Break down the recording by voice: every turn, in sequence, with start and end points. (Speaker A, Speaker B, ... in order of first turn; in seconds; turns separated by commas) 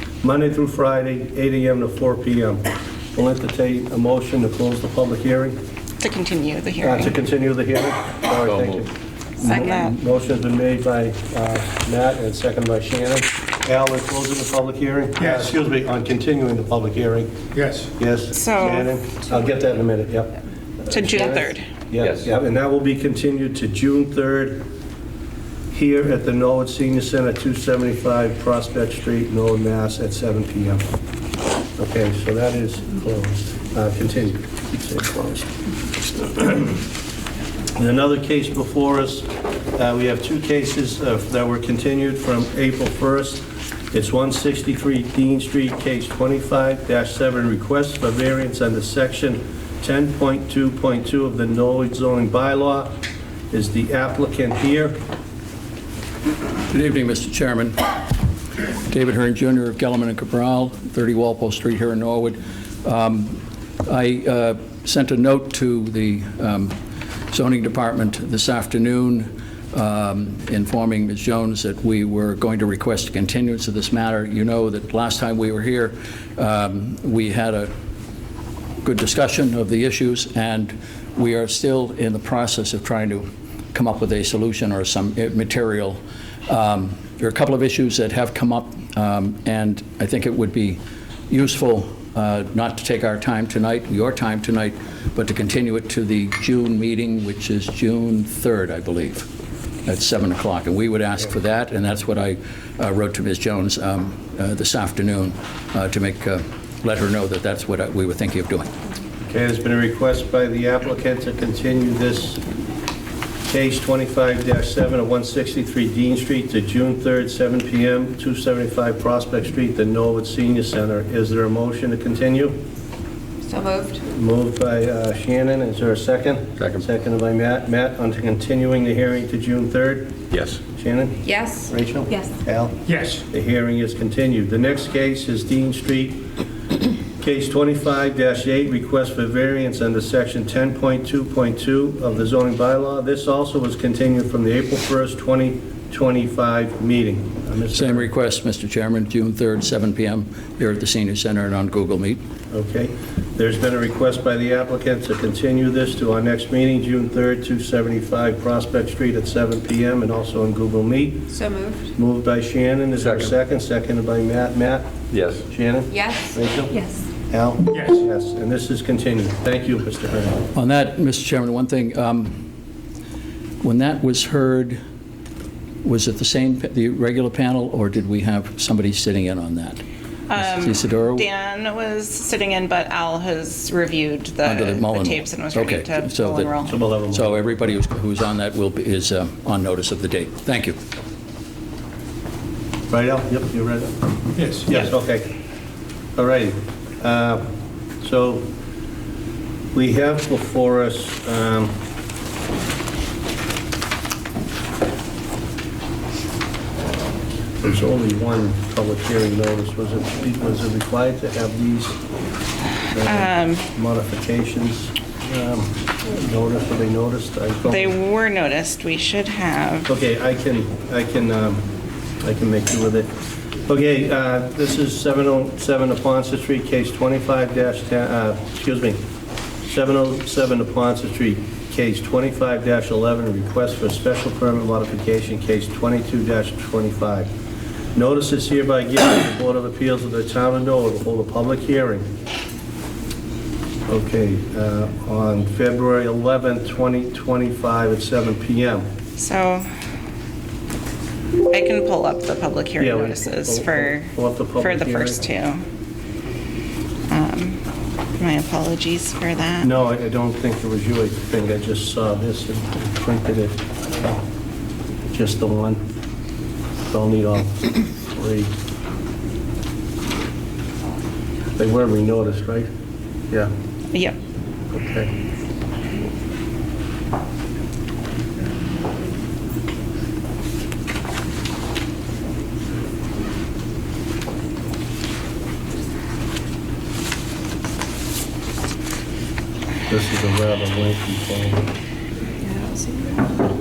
Speaker A: 0.2-2.6, Speaker A: 3.1-5.6, Speaker B: 6.0-7.1, Speaker A: 6.8-17.3, Speaker B: 9.4-9.9, Speaker C: 9.5-9.8, Speaker D: 15.2-15.6, Speaker D: 17.5-17.9, Speaker A: 18.0-24.6, Speaker B: 18.3-19.0, Speaker B: 20.9-21.7, Speaker A: 25.7-30.8, Speaker A: 31.8-35.5, Speaker A: 36.1-36.8, Speaker A: 37.8-53.0, Speaker A: 53.5-55.0, Speaker E: 56.7-57.9, Speaker E: 58.9-66.8, Speaker E: 67.3-77.7, Speaker E: 78.8-99.3, Speaker E: 99.9-108.7, Speaker A: 109.3-112.4, Speaker A: 113.5-122.6, Speaker C: 123.4-124.0, Speaker A: 124.1-136.2, Speaker C: 131.2-132.3, Speaker D: 132.9-133.2, Speaker A: 137.2-148.1, Speaker E: 147.7-152.2, Speaker A: 152.5-161.3, Speaker C: 161.3-161.9, Speaker A: 161.9-164.9, Speaker A: 165.5-170.4, Speaker C: 165.9-167.1, Speaker D: 167.7-168.0, Speaker E: 170.5-172.4, Speaker E: 173.6-174.8, Speaker E: 175.8-179.8, Speaker B: 180.3-186.8, Speaker E: 180.3-181.3, Speaker E: 184.4-186.6, Speaker A: 186.7-187.4, Speaker E: 187.1-190.8, Speaker A: 192.9-194.0, Speaker D: 194.3-194.7, Speaker A: 194.6-195.3, Speaker A: 196.2-197.4, Speaker A: 198.0-198.5, Speaker A: 199.7-201.8, Speaker A: 207.6-212.0, Speaker A: 212.9-218.0, Speaker B: 213.1-213.7, Speaker B: 217.7-219.9, Speaker A: 219.9-221.7, Speaker A: 222.2-223.1, Speaker A: 223.7-229.0, Speaker A: 229.6-237.3, Speaker A: 237.9-242.1, Speaker A: 243.9-248.9, Speaker B: 249.2-249.7, Speaker B: 251.5-255.6, Speaker A: 252.8-255.2, Speaker B: 257.1-257.6, Speaker B: 258.2-259.7, Speaker A: 259.6-264.2, Speaker A: 265.1-265.8, Speaker A: 266.9-268.5, Speaker A: 271.6-272.7, Speaker A: 274.7-275.1, Speaker A: 289.9-291.6, Speaker C: 292.5-293.3